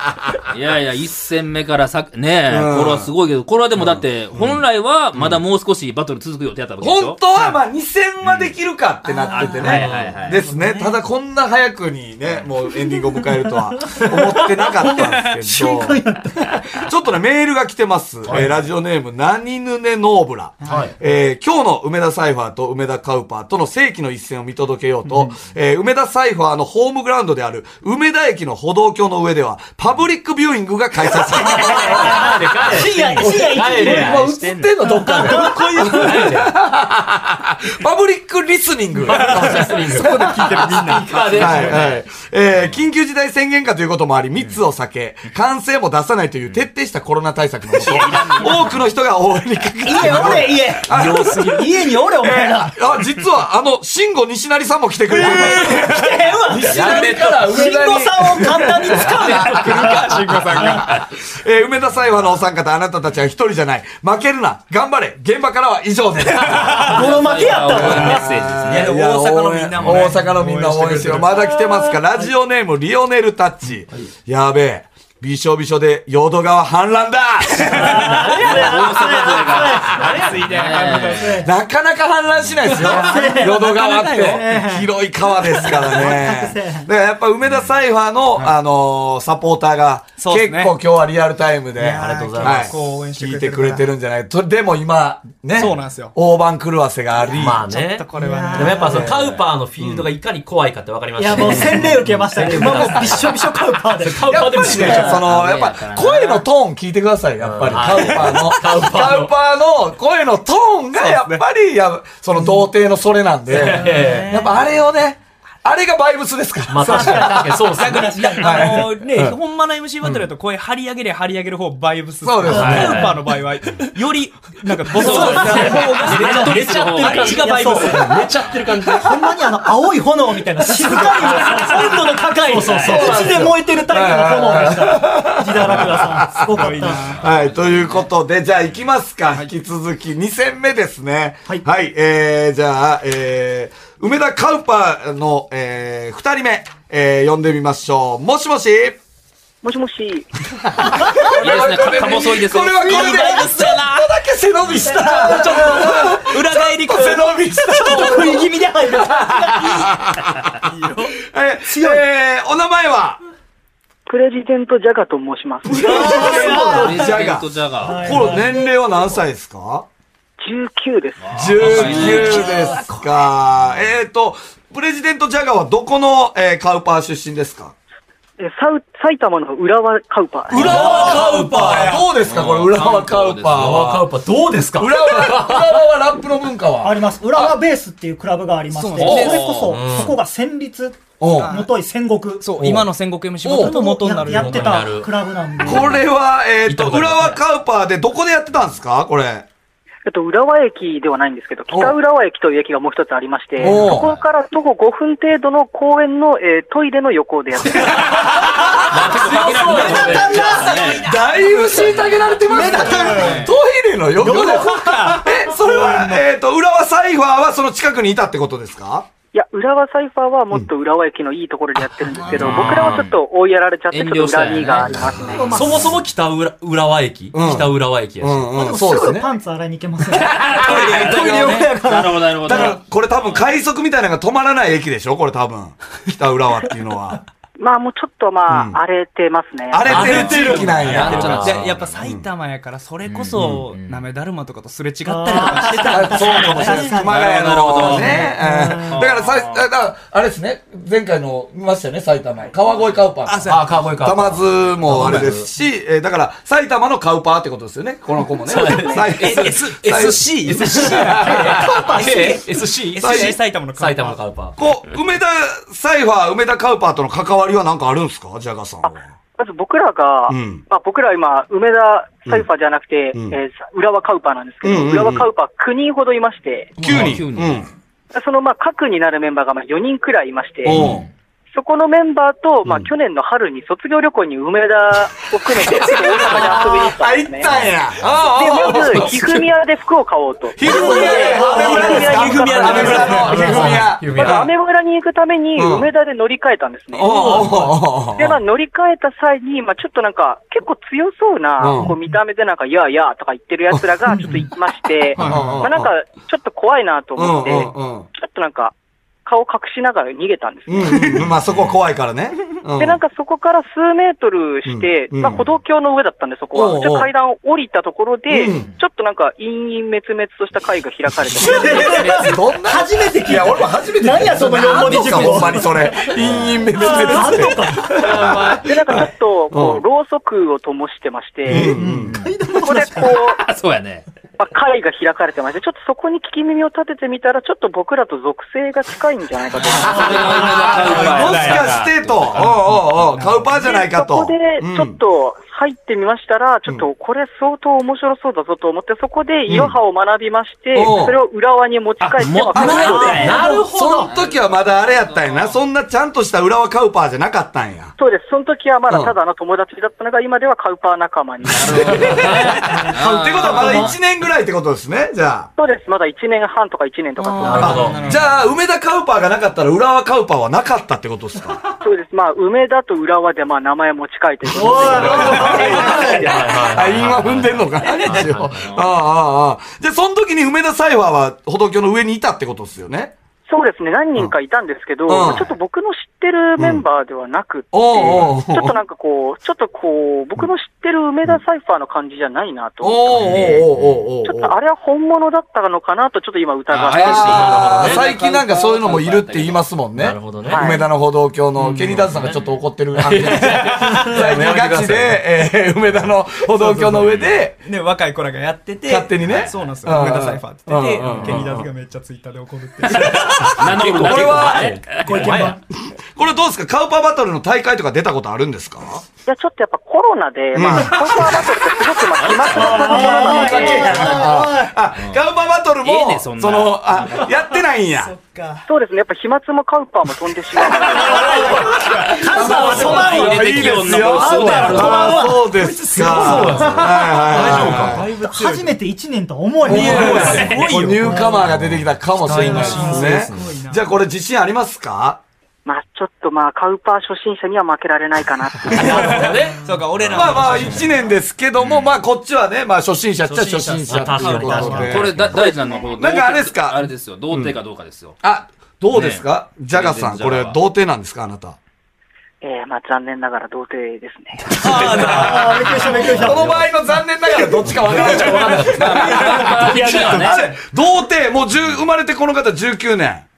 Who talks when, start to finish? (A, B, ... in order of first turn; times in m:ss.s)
0:00.4-0:07.2 A
0:02.5-0:03.1 B
0:03.8-0:04.6 B
0:06.8-0:16.0 B
0:08.2-0:08.5 A
0:09.3-0:09.5 C
0:09.3-0:10.4 A
0:09.6-0:10.2 D
0:10.3-0:11.0 E
0:14.8-0:16.7 C
0:14.9-0:15.3 E
0:16.7-0:51.6 B
0:18.2-0:18.6 D
0:20.6-0:20.9 E
0:20.6-0:20.9 D
0:31.3-0:36.5 D
0:31.3-0:36.2 C
0:39.0-0:41.8 E
0:39.1-0:42.0 D
0:48.3-0:48.6 E
0:49.8-0:52.8 C
0:50.9-0:51.6 D
0:52.2-1:07.0 B
0:55.1-1:00.8 C
0:55.2-0:55.5 D
0:56.7-0:57.8 D
0:59.1-1:00.9 E
1:06.7-1:08.3 C
1:06.8-1:09.0 A
1:07.7-1:20.1 B
1:08.6-1:11.4 E
1:17.7-1:21.5 C
1:17.9-1:18.3 E
1:18.1-1:21.5 A
1:20.1-1:21.4 E
1:21.4-1:37.6 B
1:22.7-1:24.5 E
1:22.7-1:24.9 C
1:25.5-1:26.9 C
1:30.2-1:30.8 E
1:31.8-1:33.9 E
1:32.0-1:32.7 D
1:35.6-1:36.2 E
1:37.3-1:45.2 D
1:37.4-1:39.1 E
1:38.2-1:39.1 C
1:38.9-1:40.1 B
1:41.2-1:45.2 C
1:44.2-1:57.6 B
1:44.8-1:46.5 A
1:47.4-1:49.3 D
1:51.0-1:51.4 E
1:53.5-1:54.4 D
1:53.6-1:54.6 E
1:56.7-1:58.8 D
1:56.8-1:58.7 C
1:57.6-2:08.3 E
1:58.4-1:59.4 B
2:02.2-2:03.1 B
2:02.5-2:03.3 D
2:02.5-2:03.0 C
2:04.9-2:07.5 A
2:05.0-2:09.3 D
2:05.0-2:05.7 C
2:07.4-2:08.3 C
2:08.4-2:08.8 A
2:09.0-2:17.2 C
2:10.7-2:13.5 D
2:12.8-2:29.0 B
2:16.5-2:17.2 E
2:16.9-2:18.0 A
2:29.6-2:30.3 F
2:30.6-2:40.6 B
2:31.0-2:31.9 C
2:31.3-2:33.2 A
2:32.8-2:34.2 E
2:32.8-2:33.5 C
2:34.7-2:36.0 C
2:35.0-2:38.4 E
2:37.7-2:39.9 C
2:40.7-2:41.1 E
2:41.2-2:43.2 B
2:41.7-2:42.0 C
2:44.1-2:46.3 F
2:45.6-2:49.9 B
2:45.7-2:48.6 C
2:46.2-2:48.4 A
2:50.4-2:52.4 F
2:51.2-2:53.1 A
2:51.3-2:57.8 B
2:58.4-3:01.0 F
3:00.5-3:04.1 B
3:00.5-3:02.1 D
3:00.7-3:01.3 C
3:02.2-3:03.8 A
3:03.5-3:05.8 D
3:04.8-3:07.0 B
3:06.8-3:12.5 C
3:08.7-3:09.6 E
3:09.0-3:09.8 A
3:09.1-3:10.2 D
3:11.2-3:11.6 B
3:11.4-3:11.7 E
3:12.4-3:14.9 E
3:12.6-3:12.9 D
3:13.4-3:13.8 B
3:13.6-3:16.0 C
3:14.2-3:16.0 D
3:15.6-3:19.5 B
3:16.6-3:17.4 D
3:20.1-3:28.2 F
3:21.7-3:22.0 B
3:23.6-3:24.1 B
3:23.6-3:24.1 D
3:28.0-3:39.1 B
3:28.3-3:31.1 A
3:28.8-3:30.8 D
3:29.2-3:31.6 C
3:31.8-3:32.2 A
3:32.4-3:33.5 C
3:33.1-3:33.5 A
3:34.2-3:36.2 E
3:34.2-3:36.2 C
3:39.3-3:45.6 F
3:42.3-3:43.0 D
3:42.3-3:43.2 A
3:43.9-3:45.3 A
3:45.3-3:45.9 C
3:45.5-3:48.6 D
3:47.3-3:49.3 B
3:48.5-3:52.7 C
3:50.1-3:53.4 A
3:50.6-3:51.7 E
3:52.4-3:57.2 B
3:57.6-3:59.9 F
3:58.5-3:58.8 B
3:59.7-4:02.3 B
3:59.8-4:01.6 D
3:59.8-4:01.9 A
4:00.0-4:00.6 E
4:01.2-4:07.1 E
4:03.1-4:04.1 A
4:05.1-4:07.1 C
4:05.9-4:22.4 B
4:07.1-4:08.3 A
4:07.5-4:08.2 D
4:08.1-4:08.9 C
4:08.9-4:09.7 A
4:13.3-4:14.0 E
4:13.4-4:15.5 D
4:14.9-4:15.4 E
4:18.4-4:24.6 D
4:18.6-4:24.2 E
4:23.0-4:23.4 B
4:24.6-4:29.0 B
4:28.8-4:36.7 F
4:30.3-4:30.6 B
4:34.6-4:35.3 B
4:36.8-4:37.1 E
4:36.8-4:37.6 A
4:36.8-4:37.7 B
4:38.1-4:40.8 F
4:40.6-4:41.1 B
4:41.5-4:47.5 F
4:45.6-4:49.5 B
4:48.2-4:57.4 F
4:50.6-4:54.5 B
4:50.6-4:52.3 C
4:51.4-4:54.5 D
4:55.6-4:55.9 B
4:56.9-4:58.4 B
4:57.0-4:57.6 E
4:58.1-5:08.7 F
5:01.6-5:01.9 B
5:05.2-5:05.9 B
5:05.2-5:05.5 E
5:07.2-5:08.1 B
5:09.2-5:11.1 F
5:10.7-5:13.0 B
5:11.5-5:11.8 A
5:12.8-5:22.0 F
5:14.6-5:15.4 B
5:16.5-5:17.1 B
5:18.3-5:18.7 B
5:21.3-5:26.1 C
5:21.3-5:29.8 B
5:21.8-5:22.3 A
5:26.7-5:28.1 C
5:28.0-5:31.7 F
5:31.5-5:32.2 B
5:31.5-5:33.1 C
5:32.6-5:33.4 F
5:33.3-5:34.1 A
5:34.4-5:40.9 F
5:39.7-5:42.6 A
5:39.9-5:41.6 C
5:40.4-5:45.0 B
5:40.9-5:41.6 E
5:43.5-5:53.3 F
5:49.5-5:49.8 B
5:50.7-5:51.2 B
5:52.0-5:53.5 A
5:52.6-5:53.7 C
5:52.6-5:57.9 B
5:52.6-5:54.1 D
5:54.0-5:55.6 A
5:58.0-6:02.3 F
5:58.9-5:59.1 B
6:01.6-6:04.0 A
6:01.6-6:05.5 B
6:02.1-6:02.6 D
6:05.6-6:07.9 F
6:07.2-6:08.4 E
6:07.4-6:08.2 D
6:07.6-6:11.6 B
6:11.8-6:16.4 F
6:14.5-6:23.1 B
6:14.8-6:18.7 D
6:14.9-6:15.4 E
6:18.1-6:18.9 A
6:23.5-6:33.5 F
6:25.1-6:25.5 B
6:26.6-6:26.8 B
6:27.7-6:28.8 B
6:32.8-6:34.6 B
6:33.2-6:33.9 D
6:33.2-6:33.7 A
6:34.2-6:37.5 F
6:36.7-6:39.7 A
6:37.0-6:47.6 B
6:37.2-6:38.1 D
6:40.0-6:40.7 D
6:40.5-6:40.9 F
6:41.6-6:42.1 E
6:42.0-6:42.4 D
6:42.2-6:42.6 A
6:42.9-6:45.2 D
6:46.6-6:47.0 D
6:47.0-6:47.4 A
6:47.6-6:53.5 E
6:48.9-6:51.7 B
6:49.2-6:49.6 A
6:51.1-6:51.6 D
6:52.8-6:55.4 A
6:53.0-6:55.6 D
6:53.2-6:55.4 B
6:55.0-6:55.6 C
6:56.2-6:59.0 B
6:59.3-7:04.2 F
7:00.5-7:08.1 B
7:02.2-7:03.8 A
7:02.5-7:04.7 C
7:05.0-7:05.3 A
7:05.8-7:07.2 A
7:07.1-7:08.7 E
7:08.7-7:11.4 F
7:10.8-7:13.0 E
7:10.9-7:21.4 C
7:11.0-7:18.0 B
7:12.3-7:15.4 A
7:12.9-7:13.6 D
7:15.6-7:18.7 E
7:16.0-7:18.3 D
7:19.6-7:25.2 B
7:19.6-7:21.5 E
7:19.7-7:20.5 D
7:21.3-7:23.5 D
7:22.3-7:23.9 E
7:22.7-7:23.0 C
7:25.6-7:29.3 F
7:28.8-7:30.8 D
7:28.8-7:31.1 E
7:30.1-7:37.6 B
7:31.6-7:32.0 A
7:33.2-7:35.3 D
7:33.9-7:34.9 E
7:34.4-7:34.8 C
7:34.8-7:38.2 A
7:38.2-7:41.6 B
7:38.9-7:40.6 A
7:42.4-7:44.5 F
7:44.5-7:53.3 B
7:44.6-7:46.5 C
7:44.7-7:50.4 D
7:48.7-7:50.4 A